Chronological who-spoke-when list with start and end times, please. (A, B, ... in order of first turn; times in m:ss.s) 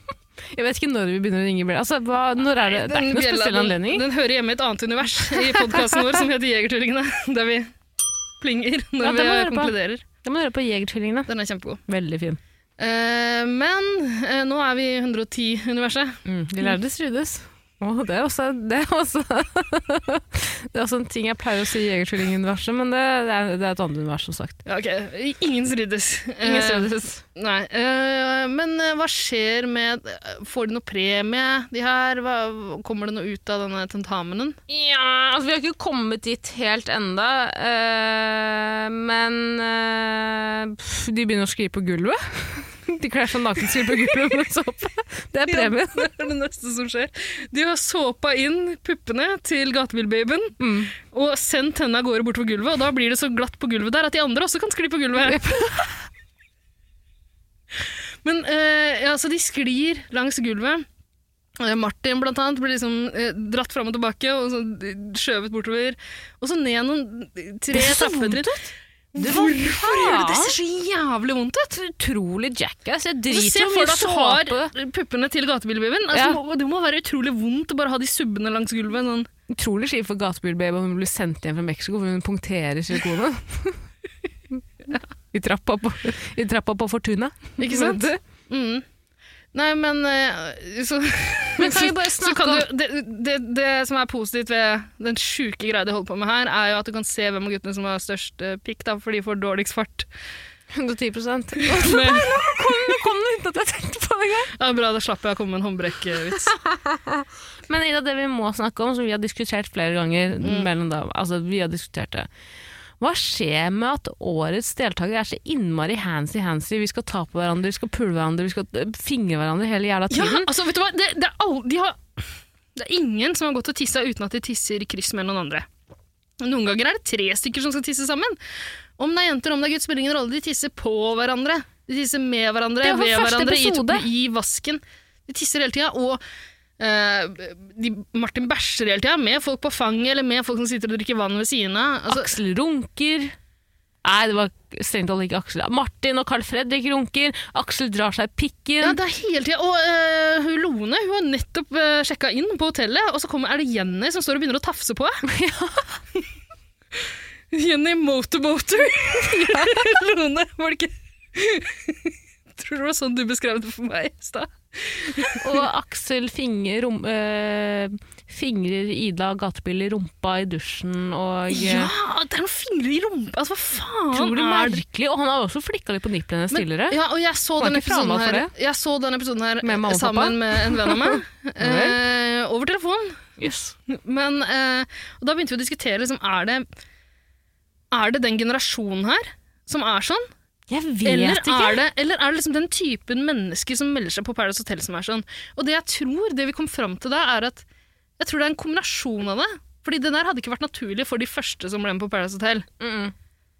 0:00.5-0:04.0 A
0:02.6-0:07.7 B
0:08.4-0:10.0 B
0:09.0-0:11.3 A
0:11.3-0:11.8 B
0:11.9-0:12.4 A
0:12.8-0:16.8 B
0:16.3-0:24.6 A
0:24.6-0:34.6 B
0:26.4-0:27.2 A
0:34.7-0:46.1 A
0:45.5-0:55.4 B
0:50.6-0:50.9 A
0:55.3-0:56.0 A
0:58.2-1:00.9 B
1:01.6-1:08.5 B
1:07.7-1:10.5 A
1:09.2-1:11.8 B
1:11.8-1:14.7 A
1:13.3-1:19.3 B
1:16.1-1:16.4 A
1:19.5-1:23.8 A
1:25.3-1:28.2 A
1:27.6-1:28.8 B
1:29.5-1:40.1 B
1:31.6-1:32.7 A
1:40.7-1:44.5 A
1:41.6-1:43.0 B
1:44.6-1:46.5 B
1:46.5-1:52.3 A
1:50.4-1:50.7 B
1:53.0-2:00.5 A
2:00.1-2:05.7 B
2:06.4-2:08.4 B
2:09.0-2:16.2 B
2:12.8-2:14.1 A
2:16.8-2:22.3 B
2:22.1-2:23.4 A
2:24.0-2:29.0 A
2:28.8-2:35.2 B
2:35.3-2:36.0 A
2:37.5-2:45.6 B
2:39.2-2:39.8 A
2:45.4-2:51.9 A
2:51.5-2:54.8 B
2:54.1-2:57.0 A
2:56.5-3:03.2 B
2:57.6-2:58.5 A
2:59.6-3:02.0 A
3:03.4-3:03.8 A
3:03.9-3:06.7 B
3:07.9-3:10.3 B
3:10.7-3:11.8 A
3:11.0-3:17.6 B
3:18.2-3:22.7 B
3:22.8-3:23.1 A